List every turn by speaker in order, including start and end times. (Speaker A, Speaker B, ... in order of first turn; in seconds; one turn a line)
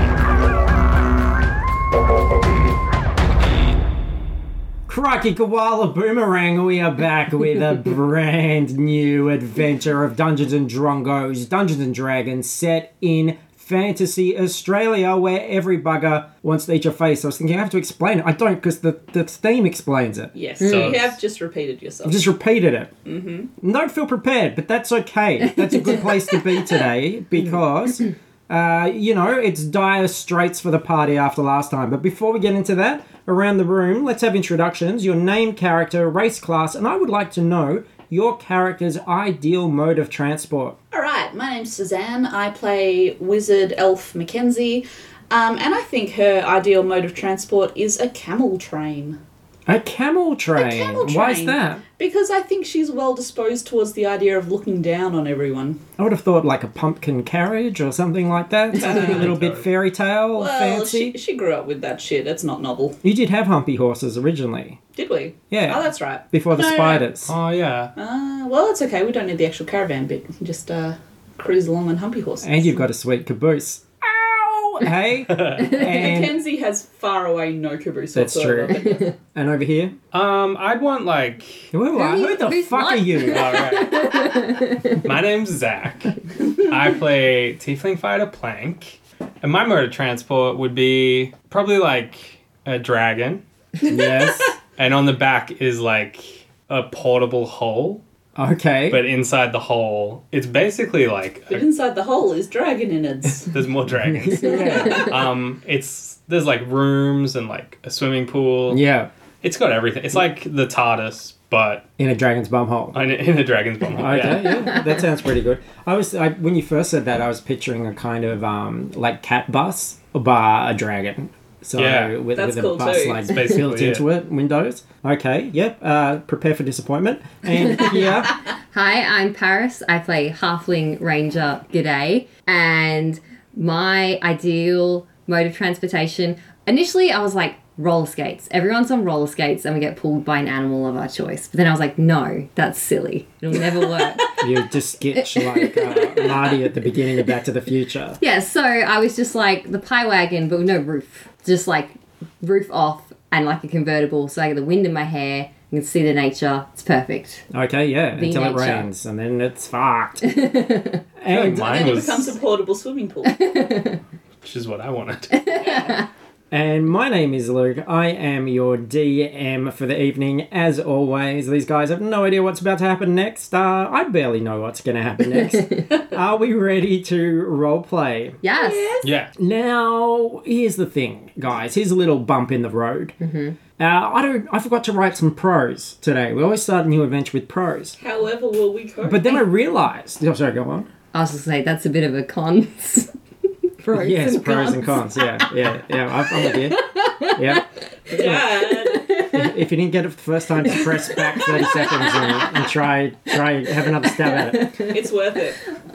Speaker A: 4.9-20.3
Speaker B: 20.3-22.2
Speaker C: 20.6-21.1
Speaker A: 22.0-22.9
Speaker B: 23.0-23.5
Speaker A: 23.6-40.7
Speaker B: 40.9-49.2
Speaker A: 49.7-51.8
Speaker B: 50.5-55.8
Speaker A: 56.0-61.1
Speaker B: 58.8-59.2
Speaker C: 58.8-59.7
Speaker B: 60.4-63.0
Speaker A: 63.0-64.8
Speaker B: 64.9-67.0
Speaker A: 65.5-67.3
Speaker C: 67.2-67.9
Speaker B: 68.0-72.8
Speaker A: 72.4-76.4
Speaker C: 75.3-75.8
Speaker B: 75.7-79.1
Speaker A: 78.1-80.0
Speaker C: 80.1-81.7
Speaker A: 81.7-83.7
Speaker D: 81.9-85.0
Speaker C: 83.3-93.4
Speaker A: 93.9-94.5
Speaker C: 94.8-98.0
Speaker A: 98.3-99.0
Speaker C: 98.9-101.7
Speaker B: 101.5-103.6
Speaker C: 103.5-108.8
Speaker A: 104.0-105.1
Speaker D: 104.6-105.0
Speaker A: 108.7-109.1
Speaker C: 109.4-111.8
Speaker A: 112.0-113.0
Speaker C: 112.9-114.7
Speaker A: 113.9-128.3
Speaker C: 121.8-122.2
Speaker B: 122.3-123.3
Speaker C: 123.3-124.0
Speaker D: 127.8-128.1
Speaker D: 128.7-144.3
Speaker B: 143.6-144.3
Speaker A: 144.4-148.2
Speaker D: 145.3-146.6
Speaker D: 148.2-157.4
Speaker A: 157.5-160.3
Speaker D: 158.1-158.9
Speaker D: 160.2-161.0
Speaker A: 161.2-161.7
Speaker C: 161.3-162.3
Speaker B: 161.5-163.4
Speaker D: 163.2-164.0
Speaker C: 164.4-165.5
Speaker D: 165.4-166.0
Speaker B: 165.5-166.0
Speaker A: 166.5-178.4
Speaker D: 178.4-178.9
Speaker B: 178.5-179.1
Speaker C: 179.0-179.3
Speaker A: 179.4-183.1
Speaker D: 183.2-183.6
Speaker A: 183.8-188.0
Speaker B: 188.0-189.4
Speaker A: 189.0-190.9
Speaker D: 191.1-193.1
Speaker D: 193.8-195.5
Speaker A: 193.9-198.6
Speaker D: 196.3-197.6
Speaker B: 198.1-199.1
Speaker D: 198.7-199.5
Speaker A: 199.2-204.8
Speaker D: 200.7-202.6
Speaker D: 204.6-204.9
Speaker B: 204.7-205.7